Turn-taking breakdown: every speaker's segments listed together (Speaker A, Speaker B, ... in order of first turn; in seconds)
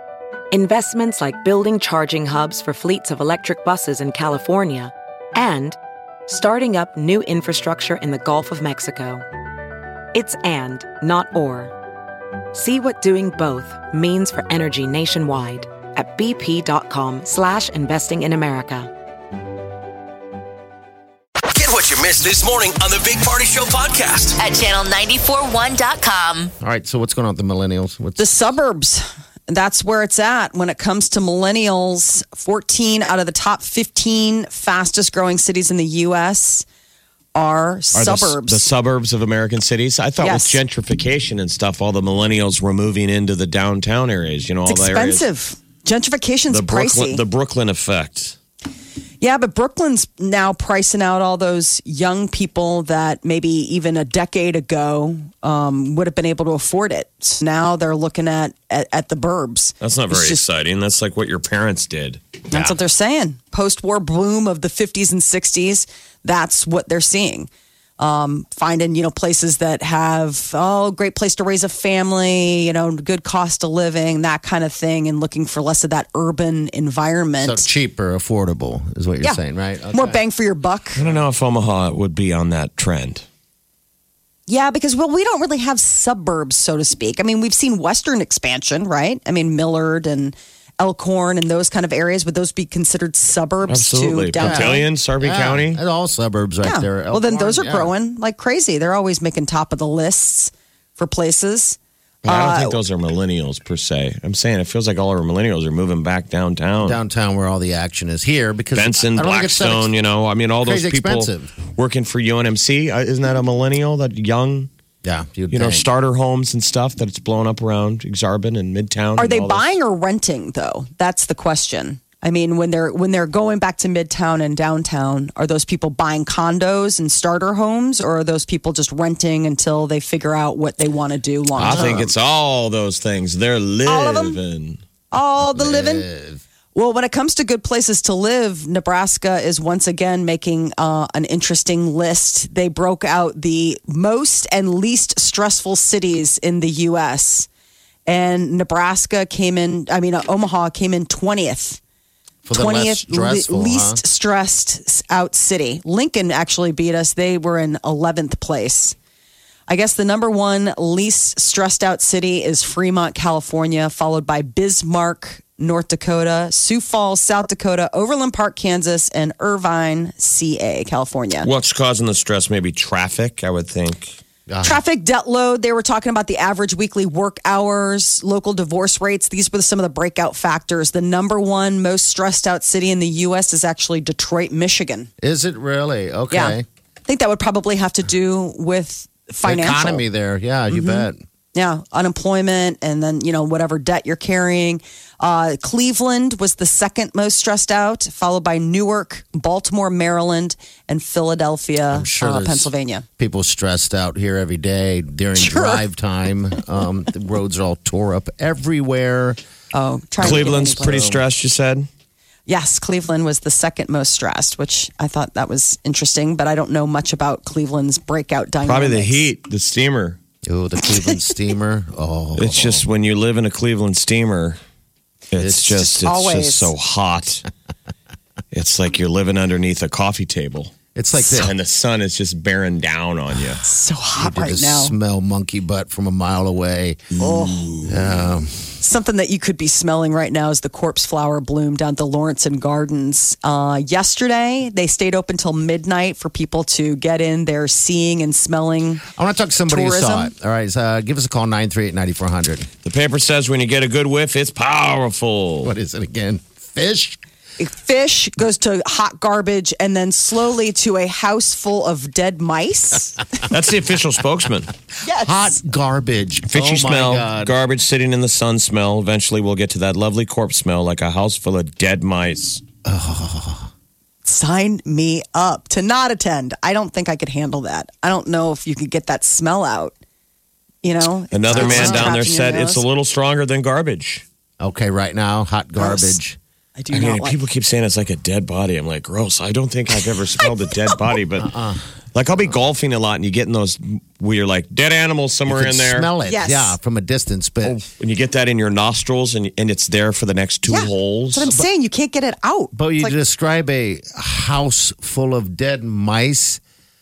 Speaker A: 0.5-9.2, 10.1-11.7, 12.5-18.9
Speaker B: 21.5-24.4
Speaker C: 24.4-26.5
Speaker D: 26.6-28.3, 77.4-80.2, 94.4-97.9, 106.8-109.9, 110.6-111.5, 115.0-115.8, 131.5-132.1, 135.4-136.4, 152.4-154.0, 174.5-174.8, 185.2-186.6, 189.4-191.2, 201.9-209.4, 210.2-211.2, 220.5-222.8, 225.4-225.9, 230.9-231.5, 234.2-237.1, 237.8-238.7, 249.0-252.7, 255.6-257.2, 265.1-267.5, 272.8-273.7, 281.5-282.2, 284.6-286.4, 291.4-291.9, 295.5-297.8, 302.7-306.6
Speaker E: 28.2-36.6, 37.3-38.6, 40.2-40.6, 44.6-47.2, 49.2-60.4, 62.5-77.7, 79.9-81.0, 84.5-94.8, 96.6-102.8, 119.2-132.1, 133.8-134.4, 135.1-136.1, 136.7-147.5, 148.1-151.8, 152.5-158.9, 159.7-171.5, 174.6-185.1, 186.3-190.0, 190.7-203.0, 205.3-205.8, 209.7-211.2, 212.5-219.2, 225.8-226.7, 233.6-234.9, 237.2-237.8, 238.8-249.0, 249.7-250.3, 257.6-263.2, 265.0-265.5, 274.2-279.9, 280.8-282.8, 285.8-286.2, 286.8-287.4, 290.4-291.0, 296.2-296.8, 300.7-303.1
Speaker F: 37.9-45.2, 46.5-48.4, 59.8-62.2, 81.0-83.2, 93.7-95.8, 102.2-107.0, 108.7-114.7, 115.5-119.7, 131.6-134.8, 171.4-174.2, 210.2-211.9, 218.6-220.2, 222.3-224.6, 225.3-227.4, 228.5-233.6, 237.3-237.9, 252.8-255.7, 263.4-264.7, 266.5-272.6, 281.3-284.2, 286.9-291.5, 292.1-296.1, 297.6-301.5